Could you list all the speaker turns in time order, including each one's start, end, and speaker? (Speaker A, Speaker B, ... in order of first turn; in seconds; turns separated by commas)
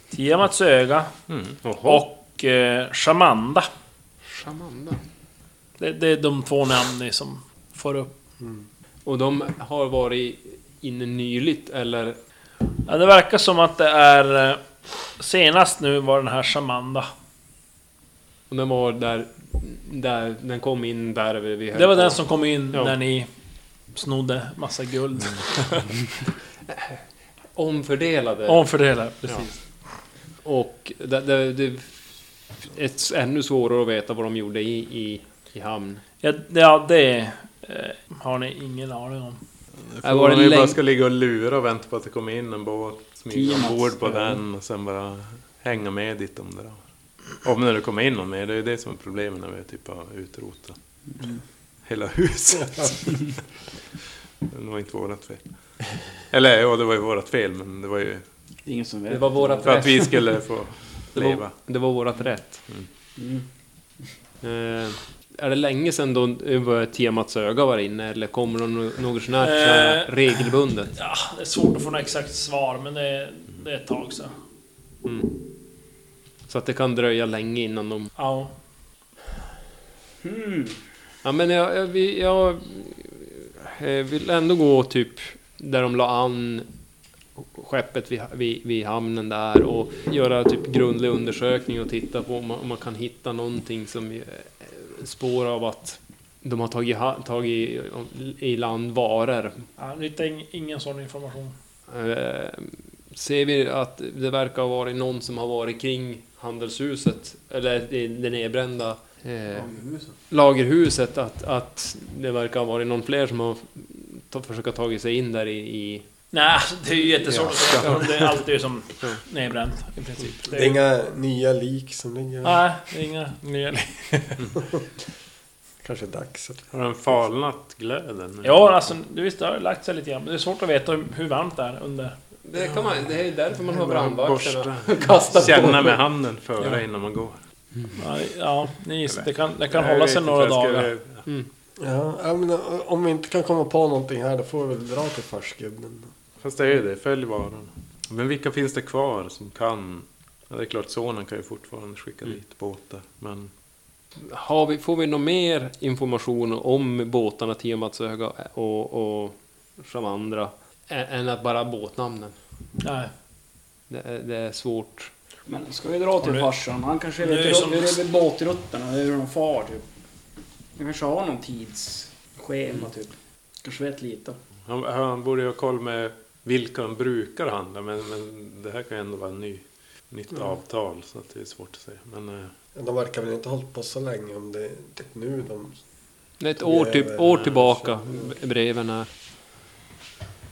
Speaker A: 0.1-1.1, Speaker B: 1.3-1.6, Speaker C: 1.6-2.0, Speaker A: 1.8-3.7, Speaker C: 4.2-5.0, Speaker A: 5.8-8.1, Speaker D: 8.4-8.6, Speaker C: 9.0-12.2, Speaker A: 12.8-14.6, Speaker A: 15.2-17.1, Speaker C: 18.5-22.2, Speaker A: 21.7-23.3, Speaker A: 23.9-25.9, Speaker C: 26.7-27.0, Speaker C: 27.5-28.7, Speaker A: 28.5-29.6, Speaker C: 30.4-31.9, Speaker C: 32.6-36.0, Speaker A: 36.2-39.4, Speaker B: 39.9-46.8, Speaker C: 40.0-40.8, Speaker E: 43.3-44.4, Speaker B: 47.4-50.8, Speaker B: 51.8-53.3, Speaker B: 54.5-55.4, Speaker B: 56.3-58.2, Speaker E: 58.6-59.9, Speaker C: 59.1-60.3, Speaker B: 59.6-61.5, Speaker C: 61.1-62.6, Speaker E: 63.2-63.5, Speaker C: 64.4-70.9, Speaker A: 69.4-74.3, Speaker C: 75.0-75.3, Speaker C: 76.5-78.1, Speaker A: 78.2-78.5, Speaker E: 80.2-80.8, Speaker C: 81.2-86.7, Speaker C: 87.3-99.6, Speaker A: 99.8-101.5, Speaker C: 101.9-109.7, Speaker E: 109.5-110.1, Speaker C: 110.3-116.0, Speaker A: 116.3-120.8, Speaker B: 117.6-118.0, Speaker D: 120.5-122.6, Speaker A: 122.4-124.4, Speaker D: 125.8-126.7, Speaker B: 126.7-128.8, Speaker A: 128.4-132.1, Speaker C: 132.4-136.0, Speaker B: 132.6-137.4, Speaker A: 138.0-140.9, Speaker B: 139.1-141.2, Speaker D: 141.8-146.1, Speaker B: 146.4-153.5, Speaker C: 154.2-162.3, Speaker A: 162.8-163.1, Speaker C: 163.9-165.1, Speaker E: 165.5-169.8, Speaker A: 166.2-166.5, Speaker A: 167.2-168.0, Speaker E: 170.8-174.4, Speaker B: 174.7-182.5, Speaker D: 182.7-185.8, Speaker C: 186.4-189.1, Speaker D: 186.6-188.2